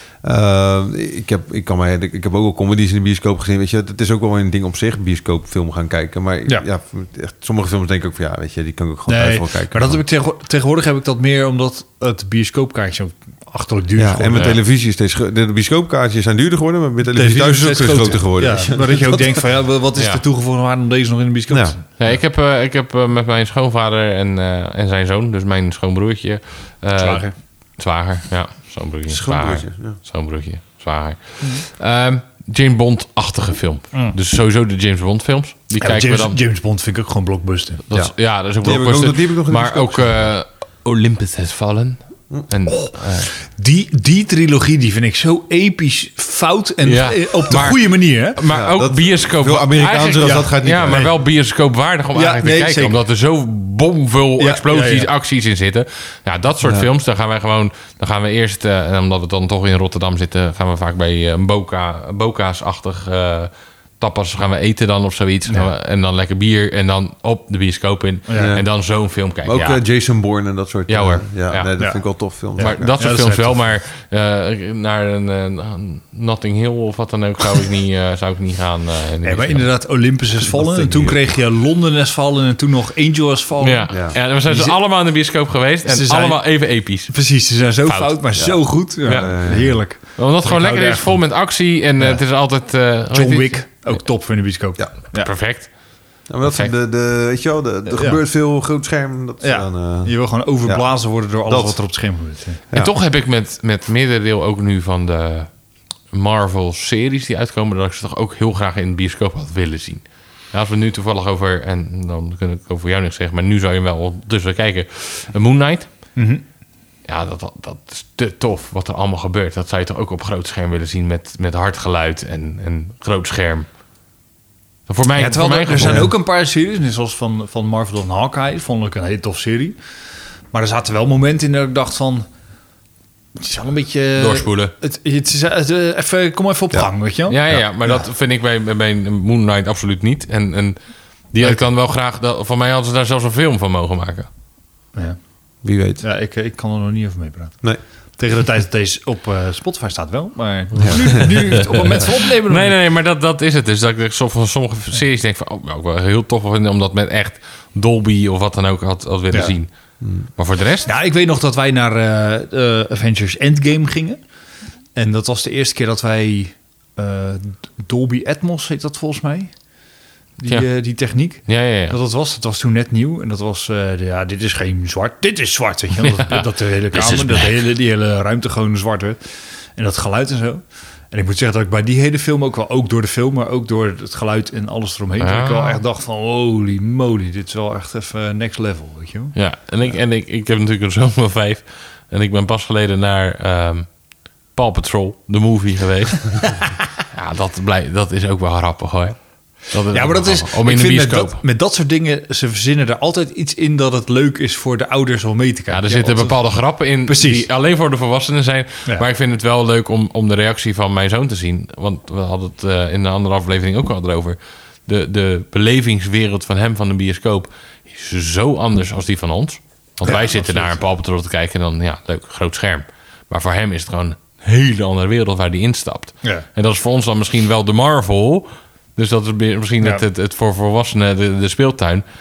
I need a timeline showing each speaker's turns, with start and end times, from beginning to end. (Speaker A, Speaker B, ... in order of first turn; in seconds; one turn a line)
Speaker A: 0.2-10.0
Speaker B: 9.1-14.5
Speaker A: 13.9-19.4
Speaker B: 17.1-22.2
Speaker C: 19.9-20.2
Speaker A: 21.5-21.8
Speaker C: 22.0-36.4
Speaker B: 27.0-27.3
Speaker A: 29.1-30.0
Speaker B: 35.8-37.8
Speaker C: 37.9-43.3
Speaker A: 37.9-40.3
Speaker B: 42.7-48.4
Speaker C: 46.8-69.8
Speaker A: 48.5-51.1
Speaker B: 50.2-51.1
Speaker B: 52.1-53.0
Speaker B: 54.4-55.1
Speaker A: 56.6-56.9
Speaker B: 68.3-68.5
Speaker A: 68.3-68.7
Speaker A: 69.4-72.9
Speaker C: 70.9-71.7
Speaker B: 71.8-72.0
Speaker B: 72.5-73.6
Speaker C: 72.6-79.7
Speaker B: 79.2-84.8
Speaker A: 80.4-81.2
Speaker C: 83.6-87.2
Speaker A: 83.9-84.2
Speaker B: 85.8-91.3
Speaker C: 87.8-88.4
Speaker A: 88.4-89.8
Speaker C: 89.0-93.9
Speaker B: 92.0-92.2
Speaker B: 93.1-95.3
Speaker C: 95.1-96.7
Speaker A: 96.3-101.8
Speaker B: 97.8-98.2
Speaker B: 99.4-102.6
Speaker A: 102.7-102.9
Speaker C: 102.7-105.5
Speaker C: 106.1-116.2
Speaker B: 116.1-116.4
Speaker C: 117.0-123.7
Speaker C: 124.9-126.1
Speaker B: 125.2-129.8
Speaker A: 125.8-126.1
Speaker B: 130.5-132.3
Speaker B: 133.3-138.0
Speaker C: 134.2-134.7
Speaker C: 137.3-144.3
Speaker B: 144.9-145.2
Speaker A: 145.6-146.0
Speaker B: 146.0-152.8
Speaker A: 150.8-151.5
Speaker C: 150.8-160.9
Speaker B: 159.3-159.6
Speaker A: 160.0-160.3
Speaker B: 160.8-164.2
Speaker B: 164.9-169.6
Speaker B: 170.4-189.3
Speaker C: 170.5-171.9
Speaker C: 176.0-177.6
Speaker C: 185.2-185.8
Speaker C: 189.3-201.4
Speaker B: 199.9-207.5
Speaker C: 205.7-232.0
Speaker B: 220.0-220.8